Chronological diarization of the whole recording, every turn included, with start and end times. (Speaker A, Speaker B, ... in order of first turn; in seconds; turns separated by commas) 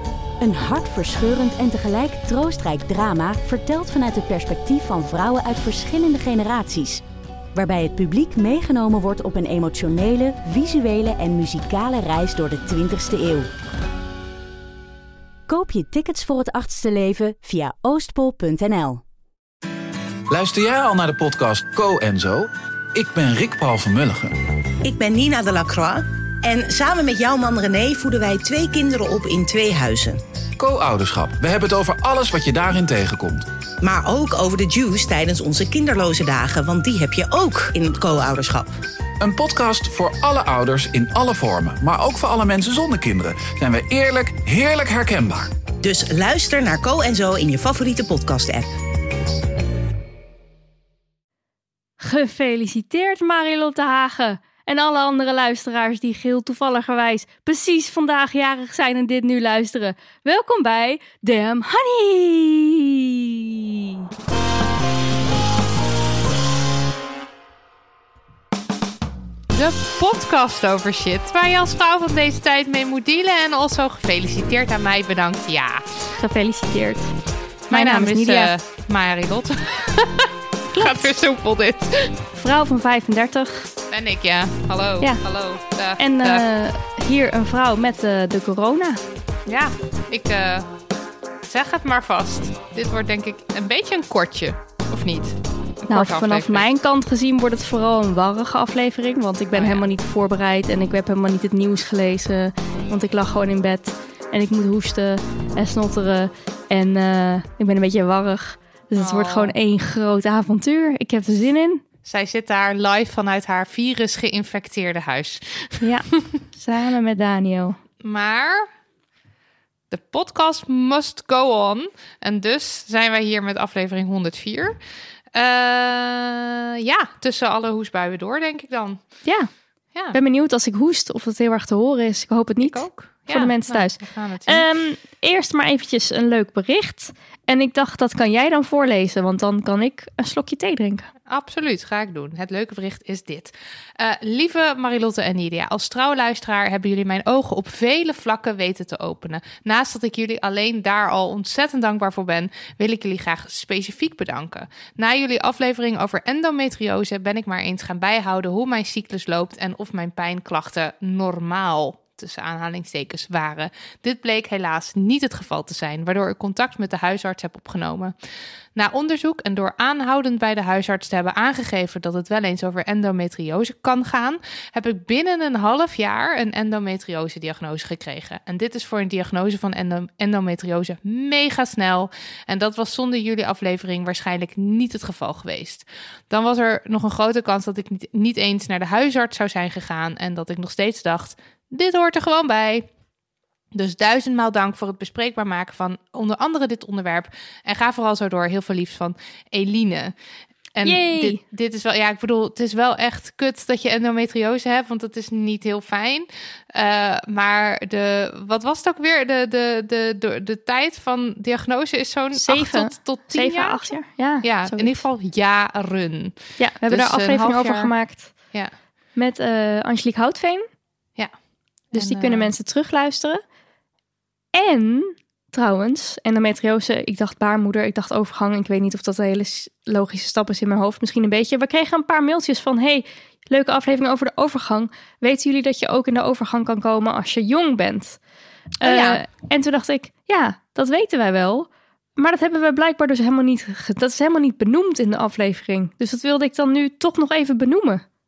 Speaker A: 0.4-7.0, Speaker A: 7.5-13.5, Speaker A: 15.5-19.0, Speaker B: 20.3-24.4, Speaker C: 24.8-30.2, Speaker B: 30.6-33.5, Speaker C: 33.8-38.7, Speaker B: 39.2-45.5, Speaker C: 45.8-48.7, Speaker D: 52.0-63.6, Speaker E: 69.5-75.9, Speaker D: 76.2-77.1, Speaker D: 77.7-78.5, Speaker E: 77.7-82.1, Speaker D: 80.7-81.1, Speaker D: 82.3-83.7, Speaker E: 83.9-86.4, Speaker D: 86.0-89.0, Speaker E: 89.5-90.7, Speaker E: 91.4-96.6, Speaker D: 95.9-111.8, Speaker E: 99.5-99.8, Speaker E: 109.0-109.5, Speaker E: 112.0-116.2, Speaker D: 115.8-117.8, Speaker E: 118.0-118.7, Speaker E: 119.9-124.8, Speaker E: 125.3-129.0, Speaker D: 129.2-129.5, Speaker D: 130.1-141.1, Speaker E: 132.6-134.7, Speaker E: 141.3-168.1, Speaker E: 168.8-192.9, Speaker E: 193.7-200.1, Speaker E: 200.7-216.4, Speaker D: 200.8-201.4, Speaker D: 212.3-215.0, Speaker D: 216.6-218.3, Speaker E: 216.9-217.9, Speaker D: 219.2-220.7, Speaker E: 221.9-222.5, Speaker D: 221.9-223.4, Speaker D: 224.5-238.2, Speaker E: 238.8-239.2, Speaker D: 238.8-248.0